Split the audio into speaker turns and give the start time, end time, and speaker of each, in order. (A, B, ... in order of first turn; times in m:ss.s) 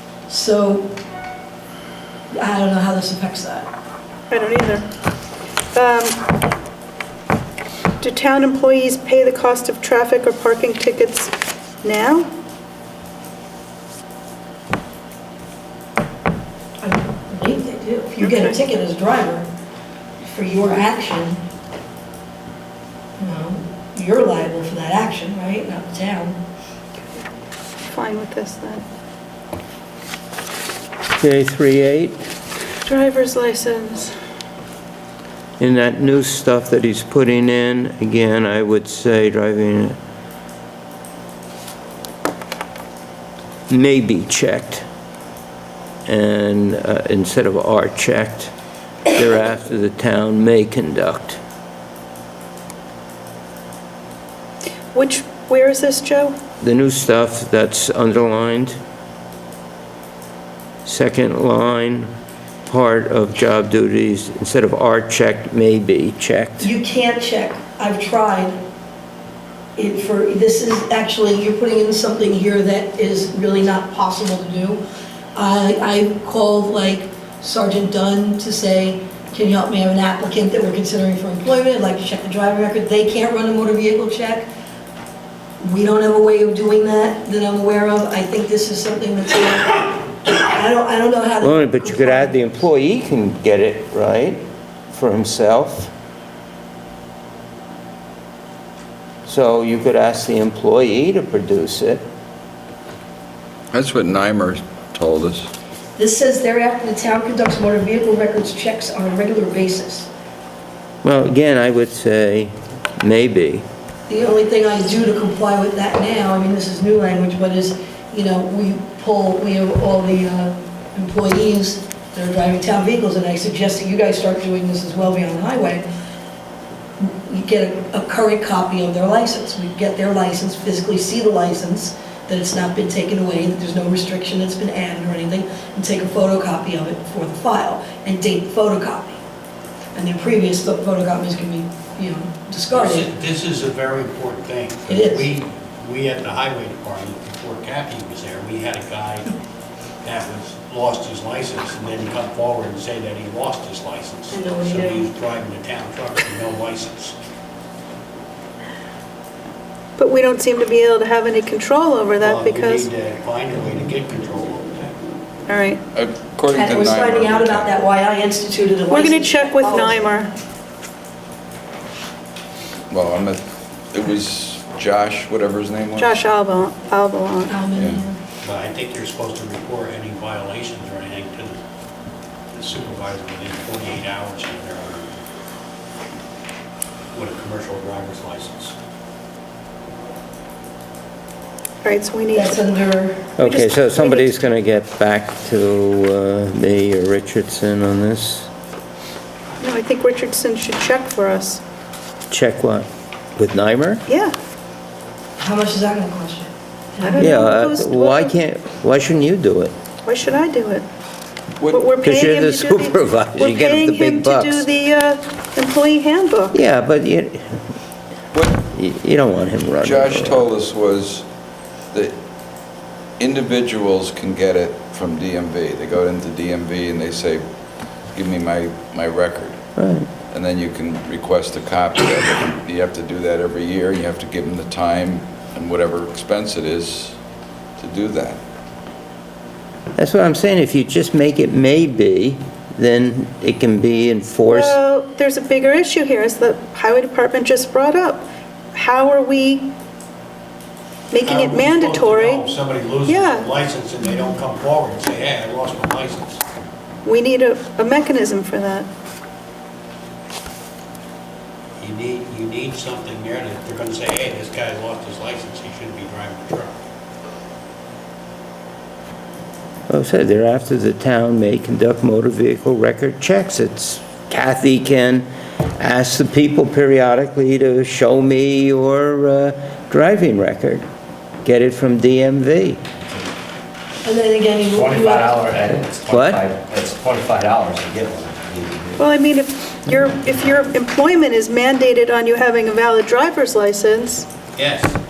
0:00.3-0:00.9 A
0:02.3-0:03.7 A
0:04.3-0:04.8 B
0:05.7-0:06.2 B
0:08.0-0:11.3 B
0:11.8-0:12.3 B
0:16.8-0:19.5 A
0:18.2-0:18.5 B
0:20.2-0:21.4 A
0:23.2-0:26.4 A
0:27.8-0:28.8 B
0:31.2-0:32.2 C
0:32.8-0:34.2 B
0:35.6-0:40.0 C
0:43.7-0:44.8 C
0:46.1-0:48.5 C
0:49.1-0:51.4 C
0:54.9-0:56.4 B
0:56.6-0:58.8 C
1:00.8-1:02.1 C
1:02.7-1:06.7 C
1:06.6-1:08.6 A
1:09.8-1:14.8 A
1:15.3-1:24.5 A
1:25.6-1:32.4 A
1:31.4-1:35.9 C
1:39.2-1:42.0 C
1:43.7-1:45.5 D
1:46.0-1:50.1 A
1:51.0-1:53.6 C
1:54.1-2:05.8 A
2:07.0-2:19.2 A
2:19.9-2:23.1 A
2:22.7-2:29.3 E
2:24.9-2:25.3 A
2:30.0-2:37.1 E
2:34.3-2:35.1 A
2:40.0-2:42.9 B
2:42.2-2:45.0 E
2:45.5-2:45.8 B
2:45.9-2:47.7 D
2:46.5-2:50.0 A
2:48.9-2:50.3 B
2:52.9-2:56.2 D
2:56.0-2:57.5 B
2:57.5-2:58.2 A
2:57.7-2:58.0 D
2:58.4-3:01.6 E
3:02.5-3:05.1 E
3:07.1-3:08.7 E
3:11.8-3:12.6 B
3:12.3-3:13.3 A
3:13.4-3:18.5 C
3:13.4-3:14.3 B
3:19.6-3:21.6 B
3:22.3-3:24.0 C
3:24.1-3:24.3 B
3:25.4-3:27.4 A
3:27.0-3:28.3 B
3:27.2-3:29.7 C
3:30.0-3:30.8 B
3:31.6-3:31.9 D
3:31.7-3:36.5 B
3:32.0-3:34.7 C
3:36.5-3:37.6 C
3:38.3-3:38.6 D
3:38.6-3:40.5 C
3:39.8-3:41.2 D
3:43.2-3:47.4 D
3:48.1-3:49.6 D
3:49.8-3:50.1 C
3:50.3-3:57.2 D
3:57.8-3:58.4 D
3:59.9-4:04.8 C
4:04.4-4:09.7 B
4:11.1-4:12.4 B
4:11.1-4:16.4 E
4:13.0-4:13.5 B
4:17.0-4:18.9 B
4:21.8-4:26.8 E
4:29.9-4:35.2 C
4:35.8-4:40.8 C
4:41.4-4:42.8 C
4:44.0-4:45.4 A
4:44.7-4:49.1 F
4:46.1-4:46.4 C
4:49.0-4:54.3 B
4:54.5-4:55.0 E